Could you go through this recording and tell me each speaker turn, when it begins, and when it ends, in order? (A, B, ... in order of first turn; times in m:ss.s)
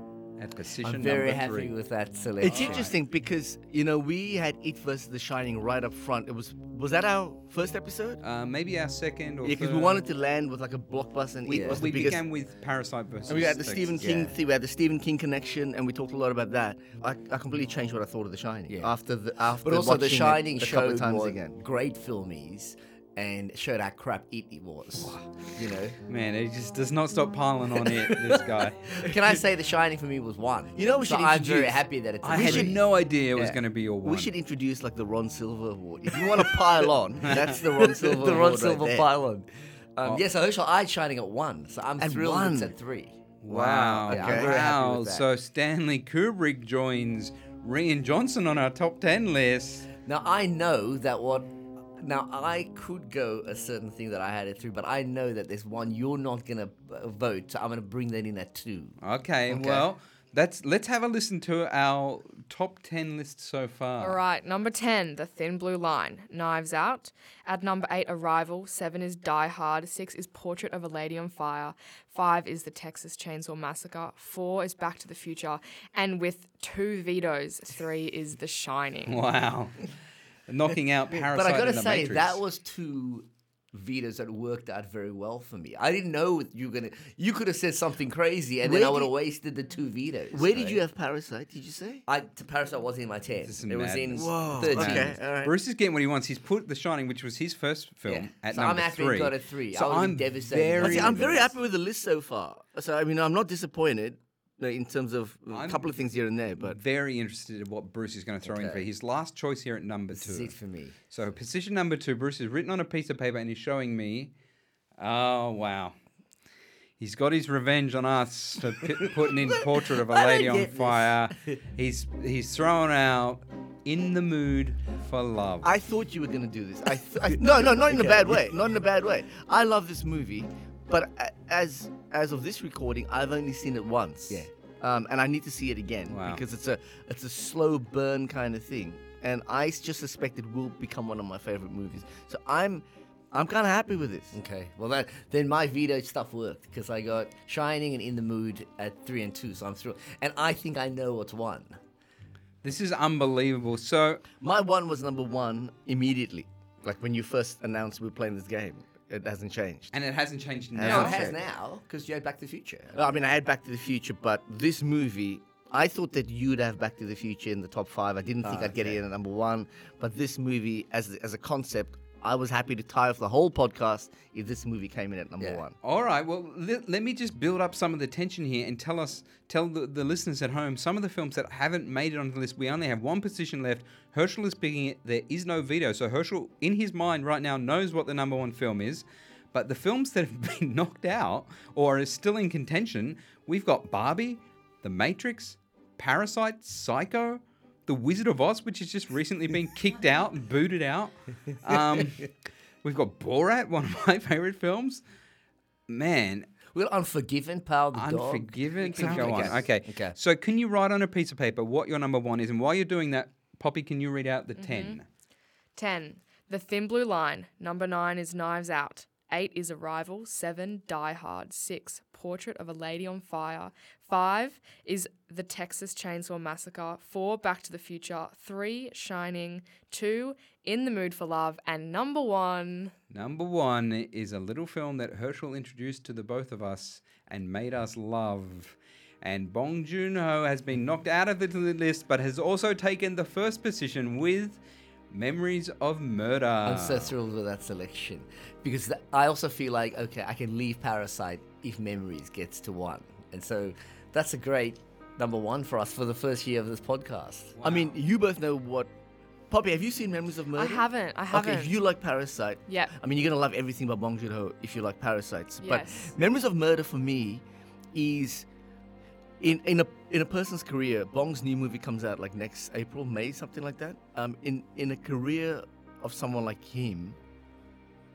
0:00.4-0:01.7 A
0:00.8-0:02.9 B
0:02.4-0:08.2 C
0:02.4-0:02.9 A
0:08.2-0:10.0 A
0:09.4-0:12.2 C
0:11.5-0:14.0 A
0:11.5-0:11.8 B
0:13.3-0:21.6 C
0:14.0-0:14.3 B
0:18.7-0:18.9 B
0:19.6-0:26.0 B
0:26.1-0:29.0 A
0:28.9-0:32.8 B
0:30.8-0:32.8 C
0:32.2-0:34.3 A
0:34.0-0:39.1 C
0:37.3-0:37.6 A
0:37.8-0:45.3 B
0:42.0-0:42.8 C
0:43.4-0:49.9 A
0:44.0-0:44.6 C
0:50.0-0:59.0 B
0:59.0-1:04.2 A
0:59.5-0:59.8 B
1:04.0-1:19.2 D
1:19.0-1:19.9 A
1:20.5-1:22.4 A
1:21.1-1:30.8 B
1:28.6-1:29.1 C
1:30.3-1:32.0 C
1:32.1-1:35.2 B
1:33.4-1:41.4 A
1:34.1-1:35.5 C
1:38.1-1:41.5 B
1:40.8-1:46.8 C
1:45.5-1:45.9 A
1:46.6-1:50.6 A
1:48.4-1:48.9 B
1:50.1-1:51.0 B
1:51.1-1:54.3 A
1:55.0-1:56.0 A
1:57.0-2:05.7 A
1:59.5-2:01.6 B
2:05.6-2:24.4 C
2:07.3-2:08.5 B
2:16.1-2:16.4 A
2:24.3-2:31.8 B
2:32.6-2:34.2 A
2:34.4-2:39.9 C
2:39.9-2:41.2 A
2:40.7-2:41.4 C
2:40.8-2:42.9 B
2:42.9-2:55.8 C
2:48.4-2:49.0 B
2:55.8-3:25.0 A
3:25.9-3:26.5 A
3:26.7-3:30.2 B
3:27.9-3:35.0 A
3:28.9-3:29.6 C
3:34.6-3:35.0 D
3:35.8-3:52.9 D
3:53.1-4:04.6 A
4:05.1-4:07.1 A
4:06.6-4:17.6 B
4:17.6-4:18.0 A
4:17.6-4:18.9 C
4:19.5-4:28.5 C
4:20.6-4:21.8 D
4:22.7-4:23.0 D
4:25.6-4:26.1 D
4:29.4-4:37.2 C